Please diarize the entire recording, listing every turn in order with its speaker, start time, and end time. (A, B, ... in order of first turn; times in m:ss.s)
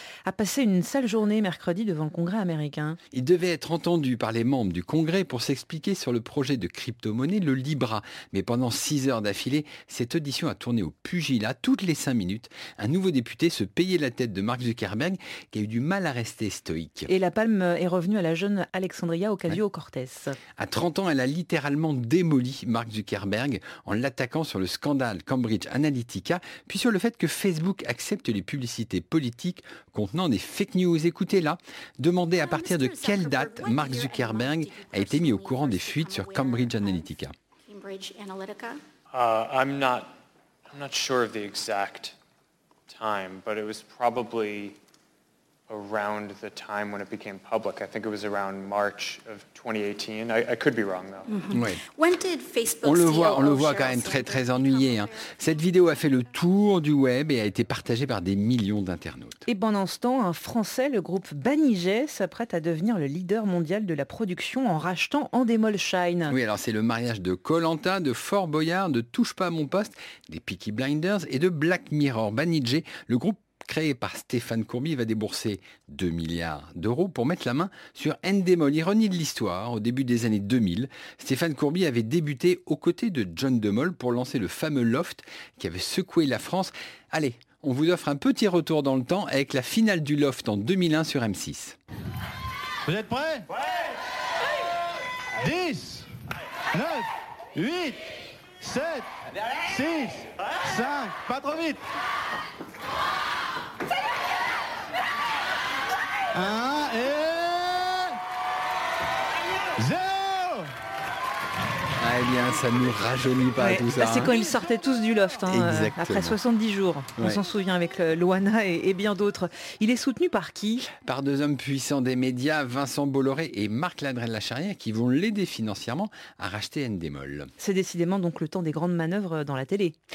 0:00.2-0:03.0 A
0:03.1-0:17.1 B
0:17.1-0:20.4 A
0:20.6-0:37.4 B
0:32.4-0:37.1 C
0:37.6-0:38.8 C
0:39.1-0:40.1 D
0:40.7-0:42.2 D
0:42.9-0:44.8 D
0:45.7-0:51.4 D
0:51.3-0:56.4 C
0:51.5-0:51.8 B
0:52.8-0:59.4 B
0:59.5-1:06.4 A
1:06.3-1:31.8 B
1:32.9-1:33.5 E
1:35.4-1:36.1 E
1:36.7-1:39.1 E
1:39.6-1:41.8 E
1:46.3-1:48.2 E
1:49.8-1:50.7 E
1:52.0-1:54.3 B
1:53.6-2:00.9 A
1:55.5-1:56.4 B
2:01.0-2:07.5 B
2:07.6-2:10.0 A